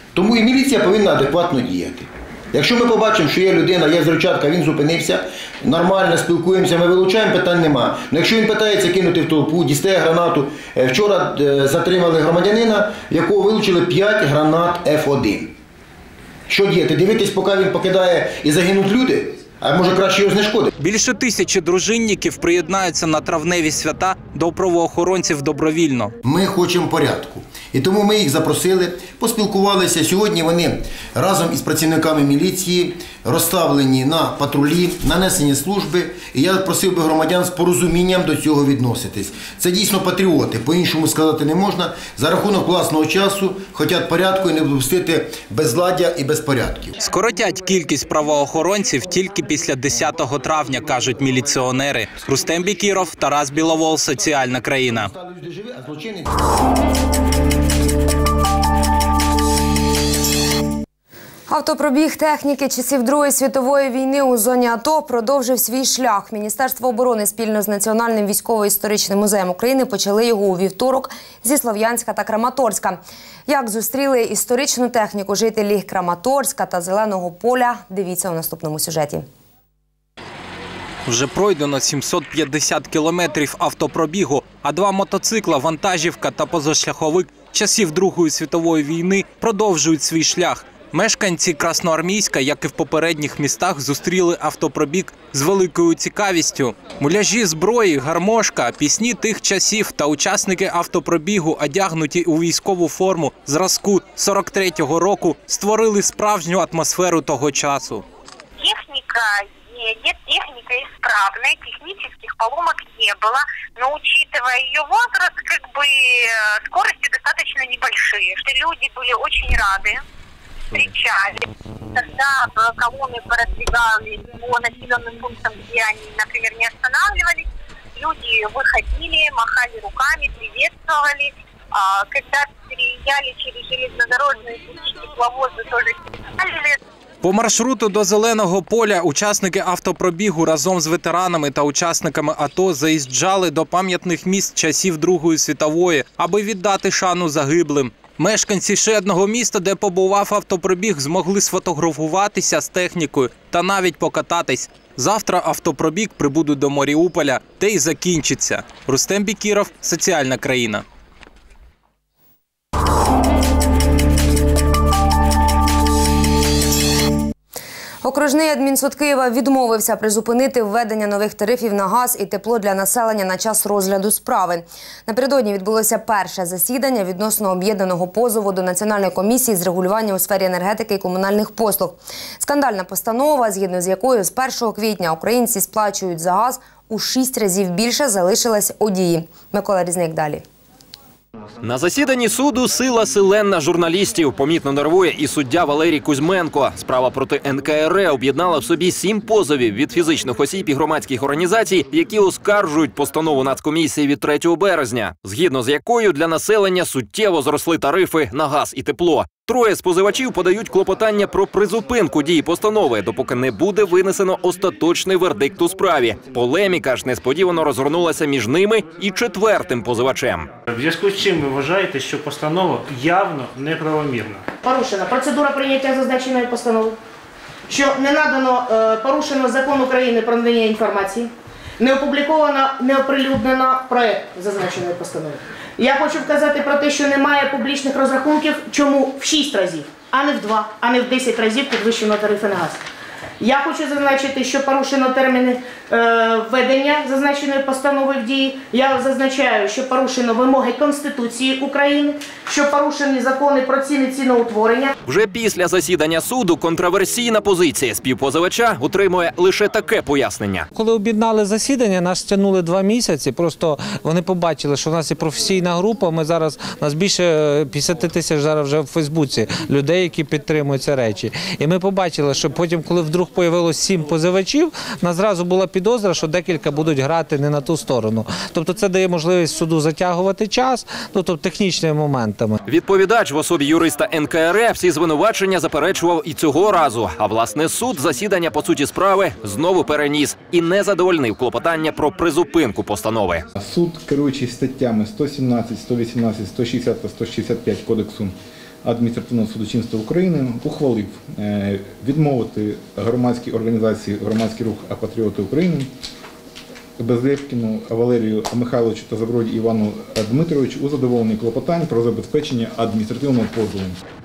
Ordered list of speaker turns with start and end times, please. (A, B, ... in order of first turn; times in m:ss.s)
0:00.1-0:15.5 A
0:16.5-0:20.7 A
0:20.8-0:26.1 B
0:26.2-0:46.9 A
0:47.0-0:55.1 B
0:54.9-0:56.3 A
1:01.5-1:19.2 C
1:21.0-1:48.0 B
1:48.6-1:56.0 D
1:56.7-2:00.0 D
2:00.7-2:01.4 D
2:01.9-2:07.4 D
2:08.0-2:16.8 D
2:17.2-2:40.8 B
2:48.0-3:10.4 C
3:11.6-3:40.5 E
3:40.7-3:44.4 F
3:44.6-3:47.0 G
3:47.7-4:02.8 G
4:03.4-4:14.9 G
4:15.0-4:20.7 E
4:20.7-4:42.6 H
4:42.6-4:53.4 E
4:53.6-5:05.9 I
5:07.0-5:14.0 I